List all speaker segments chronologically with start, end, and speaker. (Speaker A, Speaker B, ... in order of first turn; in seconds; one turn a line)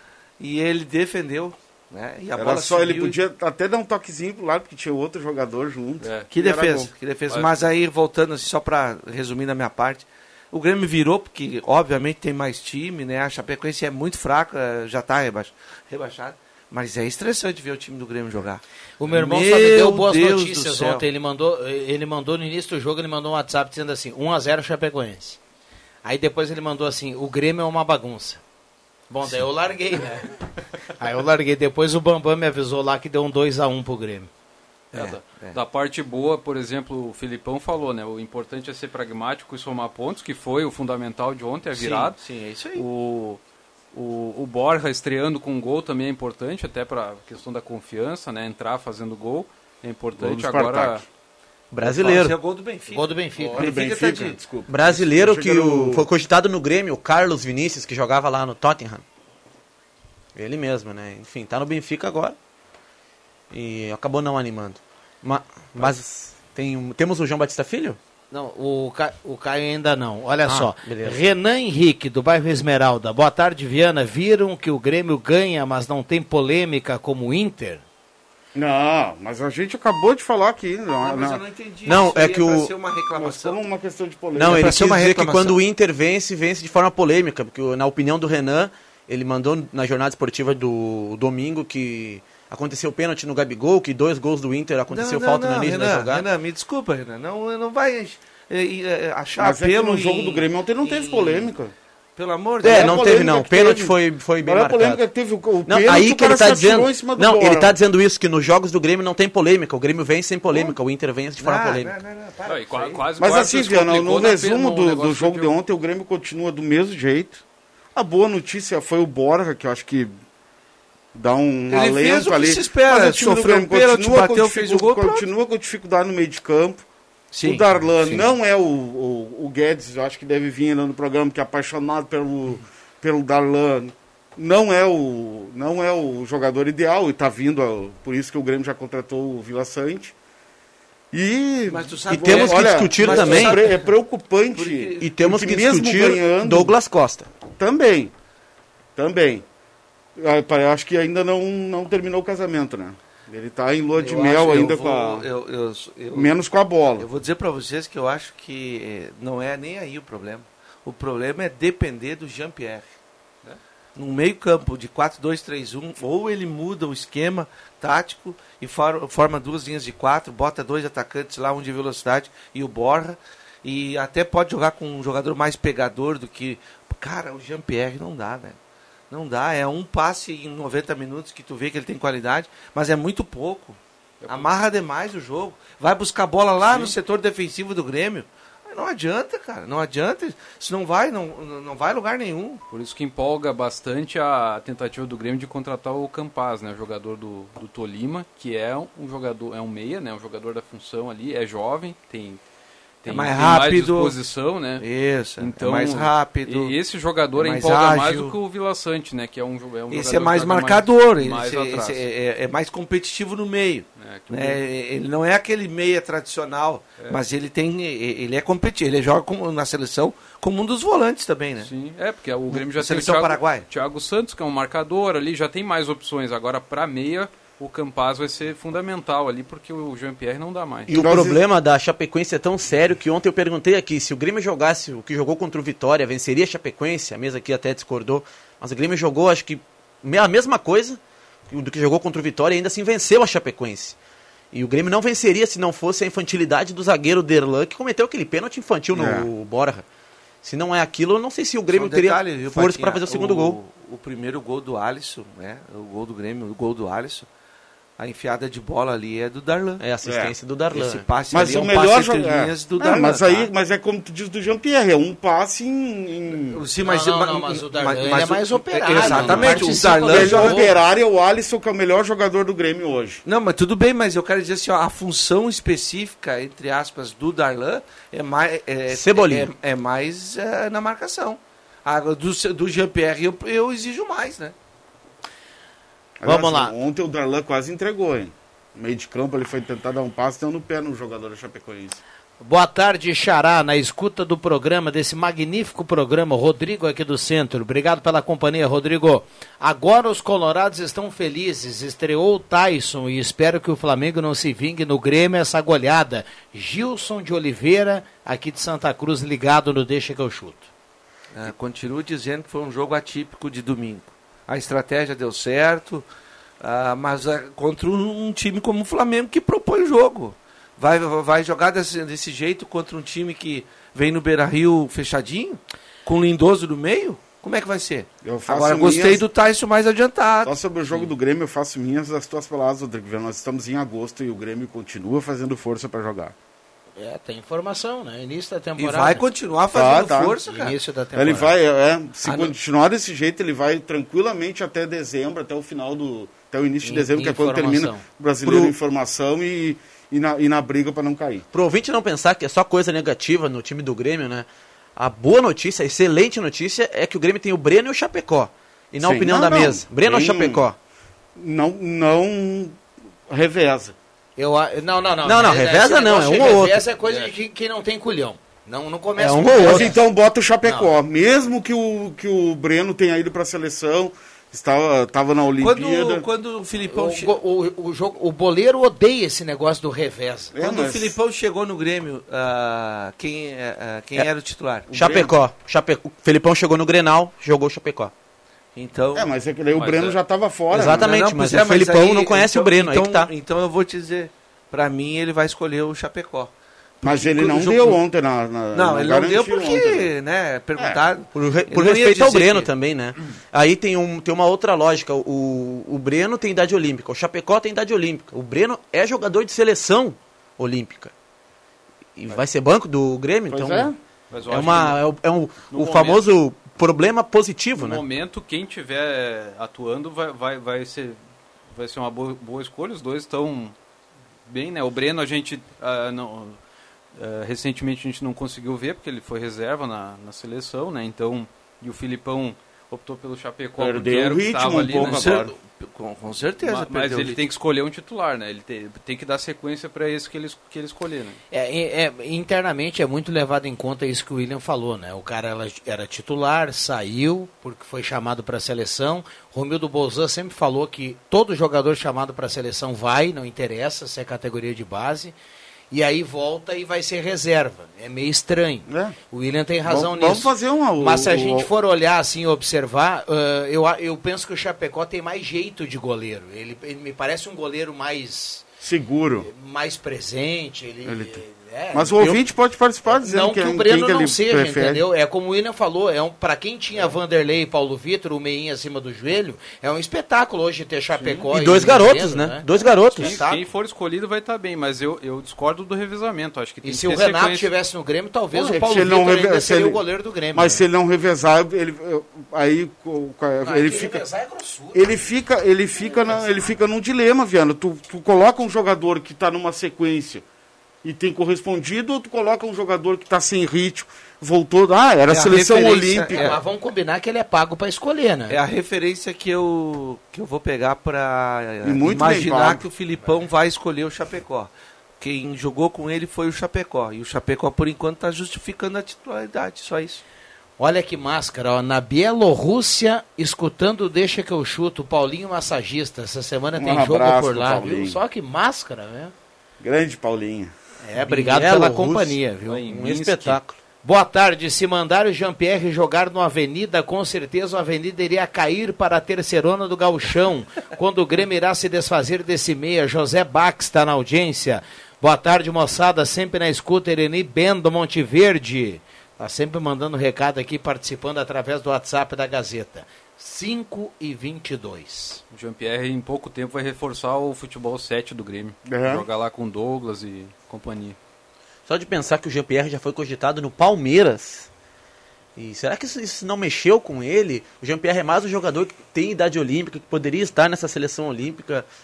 Speaker A: 0.4-3.2
Speaker B: 2.3-6.9
Speaker C: 6.0-6.3
Speaker A: 6.3-21.0
Speaker C: 7.3-7.6
Speaker D: 19.0-25.4
Speaker D: 26.0-28.4
Speaker D: 29.1-30.4
Speaker D: 31.0-34.3
Speaker A: 34.9-35.6
Speaker C: 34.9-42.2
Speaker A: 41.7-42.9
Speaker C: 42.8-43.4
Speaker C: 43.9-51.0
Speaker B: 50.1-51.0
Speaker E: 51.7-52.4
Speaker A: 51.8-54.4
Speaker D: 52.9-53.6
Speaker B: 53.5-56.1
Speaker E: 54.7-59.0
Speaker E: 60.3-62.4
Speaker E: 63.5-68.0
Speaker D: 68.3-77.8
Speaker E: 70.5-71.2
Speaker B: 78.5-81.4
Speaker A: 81.0-83.6
Speaker E: 81.8-82.7
Speaker B: 83.1-84.8
Speaker E: 84.3-96.2
Speaker A: 84.4-85.6
Speaker A: 94.9-101.5
Speaker B: 99.3-101.7
Speaker A: 102.2-103.2
Speaker E: 102.6-105.0
Speaker B: 102.6-107.7
Speaker E: 105.6-111.9
Speaker A: 111.4-113.1
Speaker C: 112.5-115.5
Speaker B: 113.2-117.4
Speaker B: 117.9-120.1
Speaker B: 121.1-126.8
Speaker A: 121.7-125.3
Speaker A: 127.3-128.3
Speaker B: 127.4-140.1
Speaker B: 141.1-146.7
Speaker A: 141.7-143.9
Speaker E: 142.1-143.7
Speaker A: 144.5-145.1
Speaker E: 145.0-147.3
Speaker B: 147.6-148.1
Speaker B: 148.9-149.4
Speaker B: 150.2-155.3
Speaker A: 153.9-156.3
Speaker B: 156.1-157.1
Speaker A: 157.0-162.8
Speaker A: 163.9-178.6
Speaker A: 179.1-192.6
Speaker C: 184.2-184.5
Speaker C: 186.7-186.9
Speaker C: 192.7-202.4
Speaker C: 203.0-204.8
Speaker A: 203.1-204.2
Speaker A: 204.8-206.7
Speaker C: 205.4-212.0
Speaker A: 207.3-208.3
Speaker A: 209.9-221.7
Speaker C: 214.0-214.6
Speaker C: 221.6-230.9
Speaker A: 222.5-223.7
Speaker E: 230.9-243.9
Speaker B: 230.9-231.4
Speaker E: 244.5-249.8
Speaker B: 248.9-249.3
Speaker E: 250.4-253.6
Speaker A: 251.7-257.3
Speaker A: 258.0-259.8
Speaker E: 259.8-261.1
Speaker B: 260.0-260.3
Speaker A: 260.7-263.5
Speaker B: 261.3-266.6
Speaker A: 266.4-270.7
Speaker D: 266.8-270.7
Speaker B: 269.0-273.2
Speaker A: 273.2-284.5
Speaker E: 278.9-279.5
Speaker B: 286.2-292.0
Speaker D: 286.2-286.7
Speaker D: 292.4-310.7
Speaker A: 311.3-316.1
Speaker A: 316.6-331.0
Speaker B: 328.2-329.2
Speaker B: 330.4-336.3
Speaker D: 337.0-339.2
Speaker A: 338.8-340.8
Speaker B: 339.7-340.4
Speaker D: 340.4-341.5
Speaker B: 341.1-351.4
Speaker A: 342.2-342.5
Speaker D: 346.8-348.0
Speaker E: 348.4-348.7
Speaker E: 351.5-360.8
Speaker B: 359.0-360.6
Speaker B: 361.4-362.8
Speaker B: 363.3-363.9
Speaker D: 364.4-370.0
Speaker E: 365.2-366.8
Speaker E: 369.2-369.9
Speaker B: 369.6-376.2
Speaker D: 370.6-370.9
Speaker A: 375.6-377.3
Speaker D: 376.9-380.5
Speaker B: 380.5-381.1
Speaker A: 380.6-385.1
Speaker E: 384.9-388.1
Speaker B: 384.9-385.3
Speaker A: 388.7-389.3
Speaker B: 389.1-391.1
Speaker C: 389.7-390.2
Speaker E: 390.7-393.3
Speaker A: 390.9-396.5
Speaker A: 397.0-398.0
Speaker B: 397.0-400.1
Speaker A: 398.7-402.7
Speaker B: 400.8-401.0
Speaker E: 401.3-411.1
Speaker E: 412.2-413.9
Speaker B: 413.5-414.0
Speaker C: 414.3-415.0
Speaker E: 414.5-418.0
Speaker C: 415.7-416.2
Speaker C: 417.8-421.2
Speaker C: 421.7-423.7
Speaker C: 424.5-426.6
Speaker C: 427.1-435.4
Speaker B: 433.8-435.5
Speaker A: 435.0-437.4
Speaker C: 436.6-441.4
Speaker D: 441.5-455.3
Speaker D: 455.9-468.6
Speaker B: 458.9-459.1
Speaker B: 459.8-461.7
Speaker B: 468.8-469.5
Speaker D: 469.4-472.2
Speaker B: 471.1-471.4
Speaker B: 471.9-475.0
Speaker D: 473.1-483.6
Speaker E: 481.5-483.4
Speaker C: 483.2-487.7
Speaker D: 486.8-490.8
Speaker B: 488.5-490.0
Speaker B: 490.5-494.2
Speaker D: 493.6-495.2
Speaker B: 494.9-500.4
Speaker B: 501.0-506.6
Speaker A: 505.3-506.6
Speaker D: 506.3-508.6
Speaker A: 508.5-520.2
Speaker B: 511.8-512.8
Speaker D: 520.8-529.3
Speaker B: 526.8-528.2
Speaker B: 529.8-530.7
Speaker D: 531.0-532.8
Speaker E: 531.1-533.8
Speaker C: 532.7-533.6
Speaker D: 534.0-555.4
Speaker C: 555.5-561.2
Speaker B: 558.9-559.2
Speaker E: 561.9-564.7
Speaker E: 565.5-571.9